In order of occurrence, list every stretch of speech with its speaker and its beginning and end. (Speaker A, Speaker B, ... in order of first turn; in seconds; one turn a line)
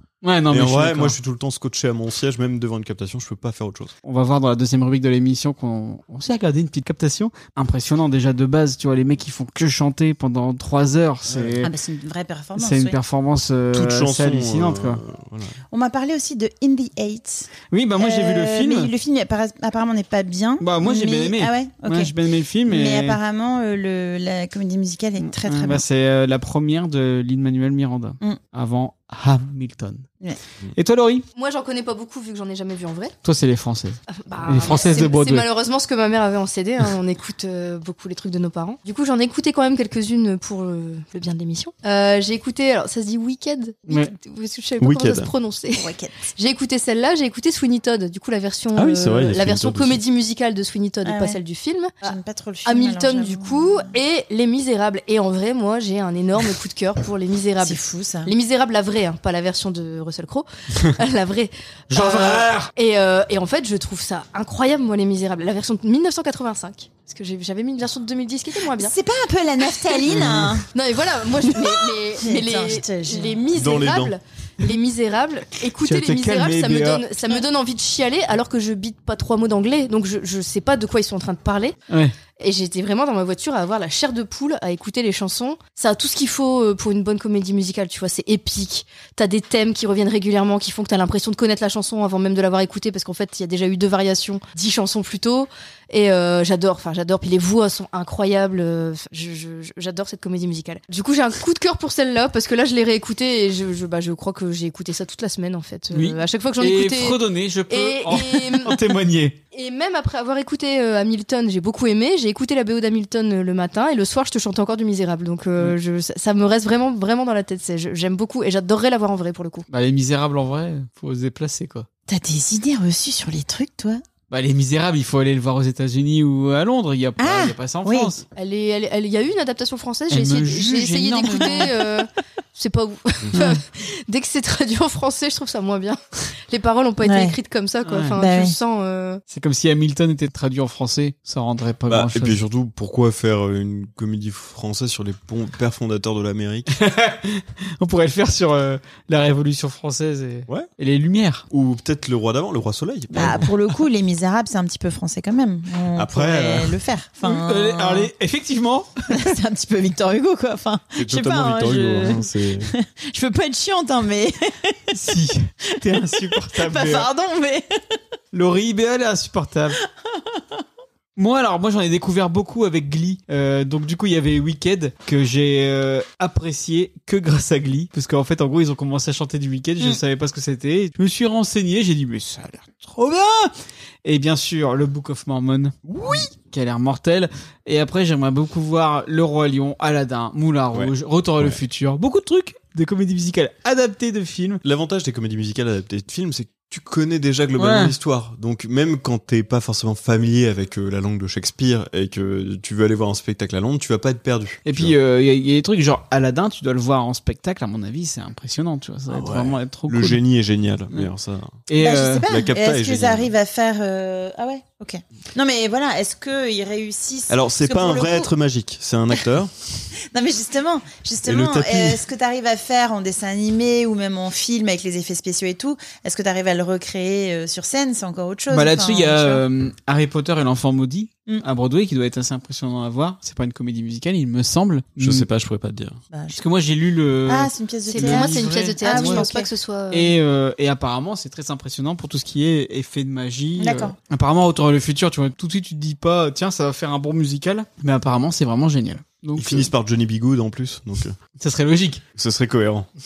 Speaker A: 0.2-1.2
Speaker B: 0.5-3.9
Speaker A: 4.0-11.7
Speaker B: 11.3-11.6
Speaker C: 11.6-13.0
Speaker A: 12.6-15.0
Speaker B: 13.7-15.6
Speaker C: 15.7-22.1
Speaker A: 17.7-18.9
Speaker A: 20.6-23.2
Speaker C: 22.6-25.8
Speaker A: 25.2-30.1
Speaker A: 30.8-31.2
Speaker D: 31.4-33.1
Speaker A: 33.2-35.5
Speaker D: 34.1-52.1
Speaker A: 43.9-44.1
Speaker B: 44.8-45.3
Speaker C: 45.8-46.2
Speaker B: 48.8-50.0
Speaker C: 51.0-51.4
Speaker C: 52.0-53.9
Speaker D: 52.6-69.0
Speaker C: 57.6-58.3
Speaker A: 61.9-62.7
Speaker C: 68.8-70.7
Speaker A: 70.2-70.5
Speaker D: 70.7-81.8
Speaker C: 71.5-73.5
Speaker B: 73.5-74.2
Speaker A: 75.8-77.0
Speaker D: 82.4-108.8
Speaker A: 105.9-109.4
Speaker D: 109.5-119.7
Speaker A: 119.7-121.9
Speaker C: 122.1-124.0
Speaker A: 124.3-128.2
Speaker C: 127.2-128.1
Speaker D: 128.4-139.2
Speaker A: 130.1-131.7
Speaker C: 130.9-131.8
Speaker C: 137.0-137.4
Speaker A: 137.8-138.2
Speaker C: 138.2-138.6
Speaker A: 139.3-142.4
Speaker B: 141.9-146.8
Speaker A: 146.7-151.5
Speaker B: 151.5-153.5
Speaker C: 153.1-158.1
Speaker A: 153.2-153.4
Speaker B: 155.9-156.8
Speaker A: 157.2-158.9
Speaker C: 159.1-164.8
Speaker B: 161.0-162.7
Speaker A: 164.9-167.1
Speaker C: 166.0-167.7
Speaker A: 168.3-169.8
Speaker C: 170.2-170.4
Speaker A: 171.2-183.5
Speaker A: 184.1-185.8
Speaker B: 185.9-186.3
Speaker A: 186.3-194.6
Speaker B: 190.7-191.6
Speaker B: 194.6-205.0
Speaker A: 197.6-197.9
Speaker A: 204.7-210.2
Speaker B: 209.1-211.7
Speaker A: 211.7-212.2
Speaker C: 211.8-218.3
Speaker B: 212.3-213.3
Speaker B: 217.3-219.6
Speaker C: 220.1-229.4
Speaker B: 221.2-222.1
Speaker A: 228.5-235.3
Speaker B: 235.0-236.0
Speaker C: 236.1-236.4
Speaker A: 236.3-239.3
Speaker C: 237.3-239.5
Speaker D: 237.9-240.2
Speaker A: 239.9-249.7
Speaker C: 243.6-243.9
Speaker B: 249.4-251.2
Speaker A: 251.4-252.0
Speaker B: 252.2-252.9